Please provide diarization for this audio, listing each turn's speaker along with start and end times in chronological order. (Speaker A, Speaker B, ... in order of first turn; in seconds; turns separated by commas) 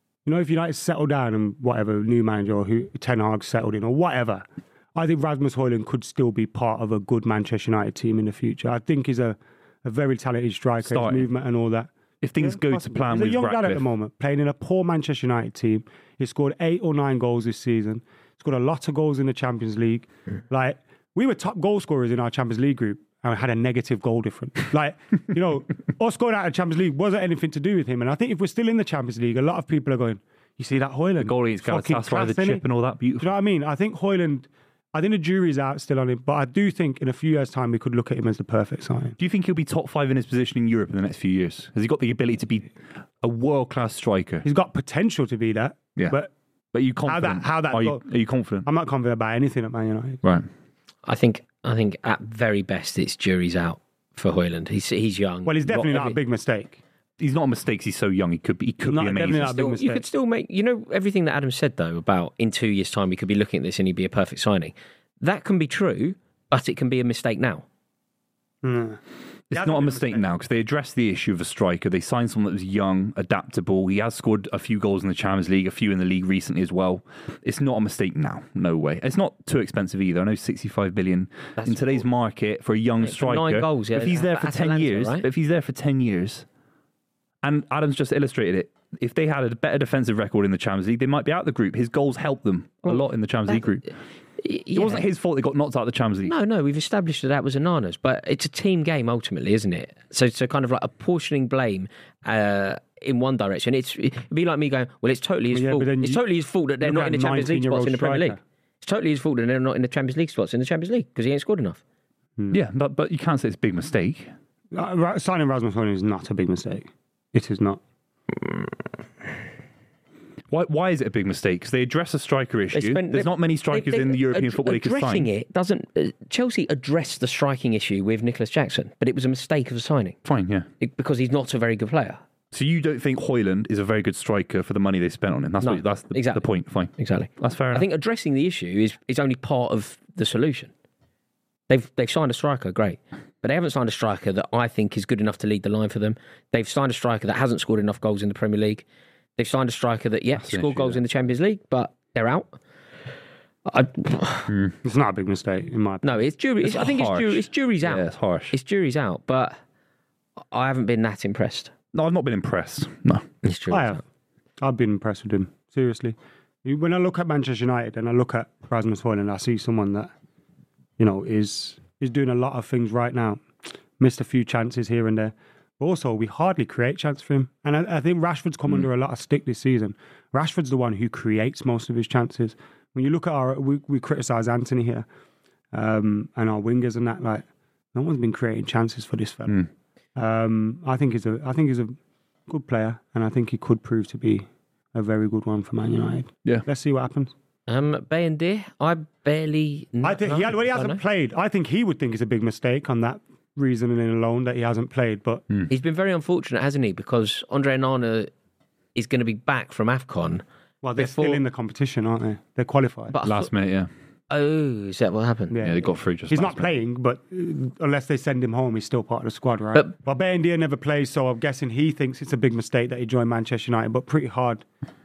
Speaker A: 0.2-32.6, Speaker B: 10.8-11.3, Speaker B: 12.2-13.8, Speaker B: 31.2-33.3, Speaker A: 33.2-39.2, Speaker B: 39.2-42.7, Speaker B: 43.2-44.5, Speaker A: 44.5-46.3, Speaker B: 46.7-48.7, Speaker A: 47.1-48.0, Speaker A: 48.7-50.2, Speaker C: 51.1-56.2, Speaker A: 55.5-56.8, Speaker B: 57.2-59.5, Speaker A: 58.8-60.0, Speaker C: 59.4-67.7, Speaker A: 68.6-69.0, Speaker B: 69.5-86.5, Speaker A: 69.5-70.2, Speaker C: 81.6-82.0, Speaker C: 83.0-85.3, Speaker B: 87.4-93.9, Speaker C: 92.9-93.6, Speaker C: 94.4-95.1, Speaker B: 94.7-96.3, Speaker C: 96.3-111.8, Speaker A: 105.5-106.2, Speaker A: 106.8-108.4, Speaker B: 112.5-114.3, Speaker A: 114.7-117.8, Speaker B: 120.5-125.3, Speaker C: 122.7-130.2, Speaker B: 130.2-130.7, Speaker C: 130.8-132.2, Speaker B: 132.5-137.9, Speaker C: 135.6-136.5, Speaker C: 137.0-140.7, Speaker C: 141.7-148.8, Speaker C: 149.4-152.6, Speaker B: 150.4-151.0, Speaker C: 153.7-154.5, Speaker B: 154.5-154.7, Speaker A: 154.8-156.1, Speaker C: 156.0-159.6, Speaker B: 156.6-158.5, Speaker C: 160.5-161.7, Speaker B: 161.9-163.2, Speaker C: 163.4-164.0, Speaker A: 163.7-164.0, Speaker A: 164.6-170.1, Speaker A: 171.0-173.4, Speaker A: 174.0-185.1, Speaker A: 185.7-189.6, Speaker A: 190.2-191.9, Speaker A: 192.5-197.3, Speaker C: 197.7-201.0, Speaker A: 200.0-205.4, Speaker C: 205.7-208.3, Speaker C: 208.9-210.4, Speaker A: 210.8-213.2, Speaker C: 211.0-211.4, Speaker C: 213.1-213.5, Speaker B: 213.2-213.9, Speaker C: 214.3-215.6, Speaker A: 215.5-224.7, Speaker B: 215.6-216.7